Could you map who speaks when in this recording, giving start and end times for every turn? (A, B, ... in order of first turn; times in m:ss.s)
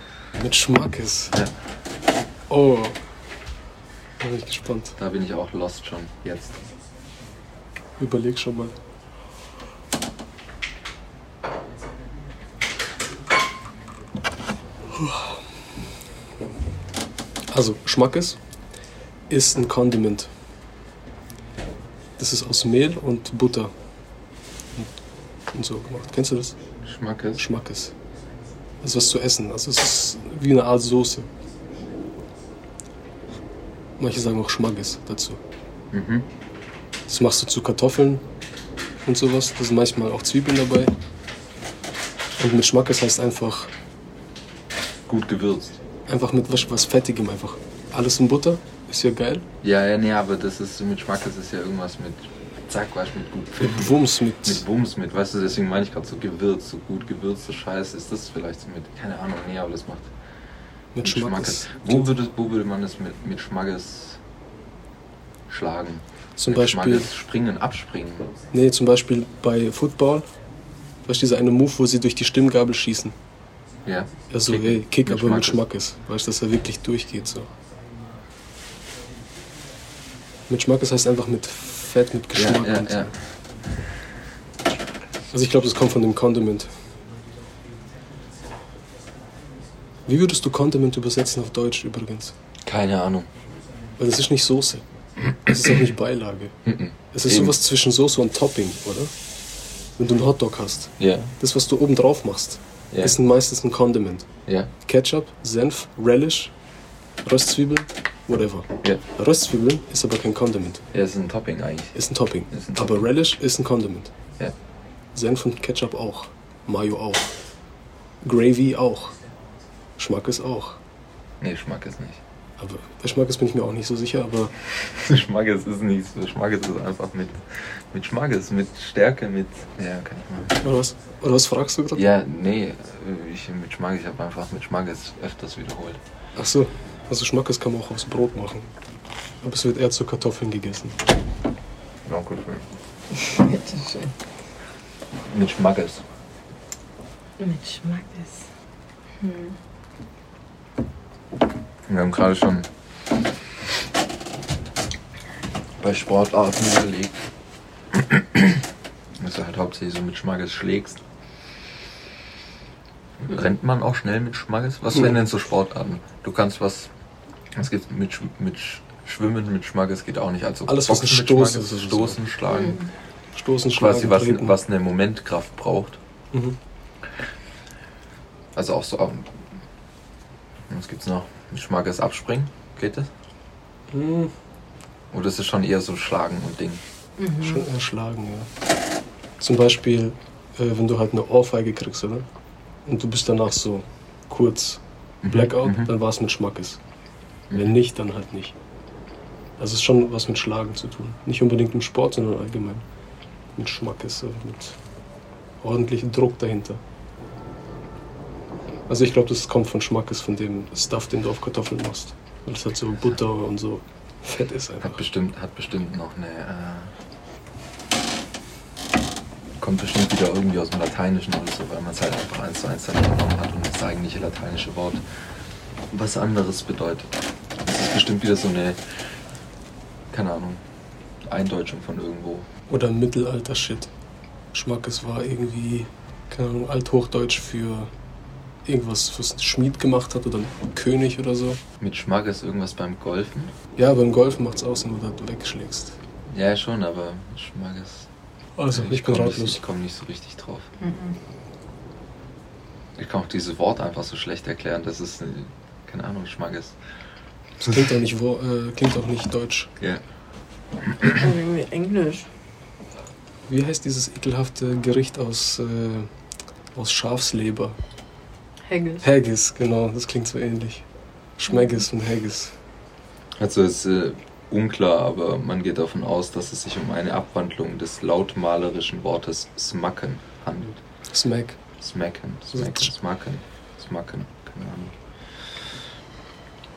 0:00.4-0:01.3 A
0:02.5-0:03.0 A
0:04.2-0:05.0 A
0:05.0-0:06.6 B
0:08.0-0:08.7 A
0:14.9-0:15.4 A
0:17.5-0:18.4 A
0:19.3-0:20.3 A
0:22.2-0:23.7 A
0:25.5-0:26.6 A
0:26.8-0:27.4 B
0:27.4-0:27.9 A
0:28.8-0:31.3 A
0:34.0-0:35.4 A
0:35.9-0:36.3 B
0:37.1-0:38.2 A
0:39.0-0:40.9 A
0:42.4-0:43.7 A
0:45.1-0:45.7 B
0:46.1-0:49.4 A
0:49.6-1:00.1 B
0:53.6-0:54.6 A
1:00.9-1:02.1 A
1:01.0-1:04.2 B
1:05.5-1:08.3 B
1:06.4-1:07.1 A
1:08.5-1:10.3 A
1:11.0-1:13.1 A
1:13.8-1:15.6 B
1:14.3-1:17.5 A
1:20.5-1:23.1 A
1:22.3-1:23.1 B
1:25.3-1:26.8 A
1:30.0-1:32.3 A
1:32.6-1:33.3 B
1:34.0-1:34.8 A
1:35.4-1:36.5 A
1:36.6-1:37.6 B
1:37.1-1:39.1 A
1:40.0-1:44.3 A
1:41.0-1:41.3 B
1:42.9-1:43.2 B
1:44.5-1:44.7 B
1:44.8-1:46.5 A
1:47.2-1:50.8 A
1:50.9-1:52.0 B
1:51.9-1:54.1 A
1:52.5-1:53.1 B
1:55.1-1:57.3 A
1:58.2-1:59.2 A
2:00.0-2:00.8 A
2:01.4-2:02.2 B
2:02.6-2:04.5 A
2:04.8-2:07.4 B
2:07.9-2:10.6 B
2:10.6-2:12.1 A
2:11.9-2:16.0 B
2:16.4-2:18.7 A
2:19.4-2:21.0 A
2:22.0-2:22.7 B
2:23.2-2:24.1 C
2:25.2-2:26.0 B
2:27.4-2:28.5 C
2:29.2-2:29.6 C
2:31.9-2:32.7 B
2:35.8-2:37.2 B
2:37.9-2:38.6 B
2:39.2-2:41.0 B
2:43.2-2:46.9 B
2:47.5-2:52.9 B
2:50.7-2:52.2 A
2:52.6-2:52.8 C
2:53.3-2:54.6 A
2:53.7-2:56.0 B
2:56.3-2:56.6 A
2:58.5-2:59.3 B
3:00.7-3:03.1 B
3:03.9-3:04.3 A
3:05.1-3:06.8 B
3:07.2-3:07.6 C
3:07.3-3:08.5 A
3:09.4-3:12.2 A
3:12.8-3:16.8 A
3:15.2-3:15.9 B
3:17.5-3:17.8 B
3:17.5-3:18.6 A
3:19.6-3:22.8 A
3:23.6-3:24.8 A
3:25.6-3:26.8 A
3:28.9-3:35.0 A
3:34.8-3:36.9 B
3:39.6-3:45.0 B
3:45.9-3:47.1 B
3:47.6-3:48.8 B
3:50.1-3:50.6 B
3:51.2-3:52.5 B
3:52.7-3:53.9 A
3:54.5-3:57.9 A
3:58.6-4:01.6 A
4:01.8-4:03.5 B
4:03.8-4:06.0 A
4:06.3-4:08.1 B
4:08.6-4:09.6 A
4:08.7-4:10.7 B
4:10.8-4:11.2 C
4:13.0-4:16.8 B
4:17.6-4:19.7 A
4:21.0-4:22.3 C
4:23.5-4:26.1 A
4:26.7-4:27.8 A
4:28.6-4:29.0 C
4:29.0-4:30.8 A
4:31.4-4:32.5 A
4:33.4-4:40.8 B
4:41.1-4:41.6 A
4:41.8-4:45.0 B
4:42.6-4:42.8 A